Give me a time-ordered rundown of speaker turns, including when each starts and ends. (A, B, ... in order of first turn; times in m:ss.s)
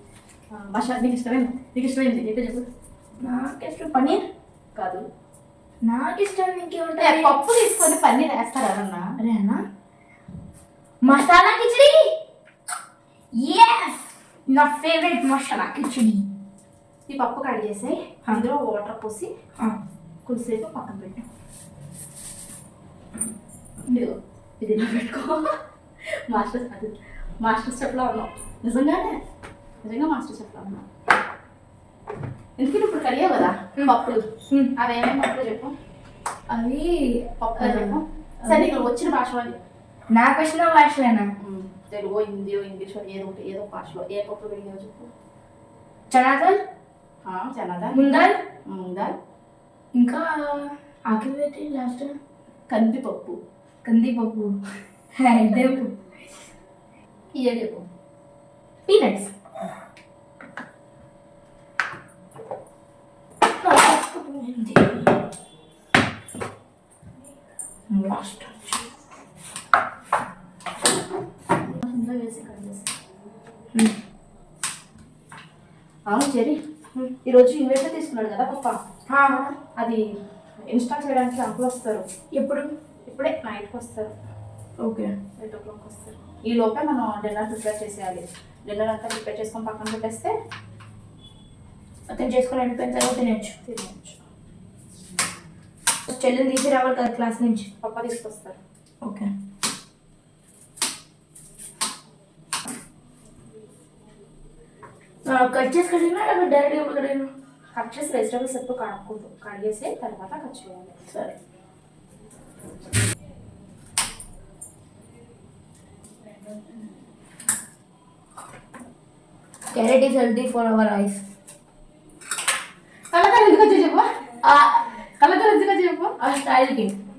0:00.5-0:02.6 A
0:03.2-0:04.2 B
0:04.7-0:05.1 A
0:05.8-0:07.3 B
0:07.0-0:09.1 A
0:09.2-0:09.6 B
0:11.0-0:12.1 B
0:13.4-0:16.2 B
0:17.1-0:19.3 A
0:20.2-0:21.2 A
0:23.9-0:25.5 A
0:26.3-0:29.2 A
0:29.8-0:30.8 A
0:32.6-0:35.7 A
0:36.5-0:38.7 B
0:37.4-0:39.6 A
0:40.1-0:41.3 B
0:41.4-0:45.1 A
0:46.1-0:46.6 B
0:47.2-0:48.1 A
0:47.9-0:48.4 B
0:48.6-0:49.2 A
0:49.9-0:52.1 B
0:52.7-0:53.4 A
0:53.8-0:54.5 B
0:55.1-0:55.9 B
0:57.3-0:57.9 A
0:58.9-0:59.3 B
1:03.6-1:05.1 B
1:07.9-1:08.5 B
1:11.6-1:12.9 A
1:16.1-1:16.6 A
1:17.2-1:18.8 A
1:19.1-1:19.6 B
1:19.7-1:20.0 A
1:20.6-1:22.0 A
1:22.3-1:22.7 B
1:23.0-1:24.1 A
1:24.8-1:25.1 B
1:25.4-1:30.3 A
1:32.1-1:33.5 B
1:33.6-1:34.2 A
1:36.1-1:37.7 B
1:37.8-1:38.6 A
1:39.0-1:39.3 B
1:45.2-1:47.3 B
1:47.7-1:51.0 A
1:51.1-1:51.3 B
1:59.7-2:01.2 B
2:03.1-2:04.0 A
2:04.4-2:04.8 B
2:05.2-2:06.1 A
2:06.2-2:06.9 B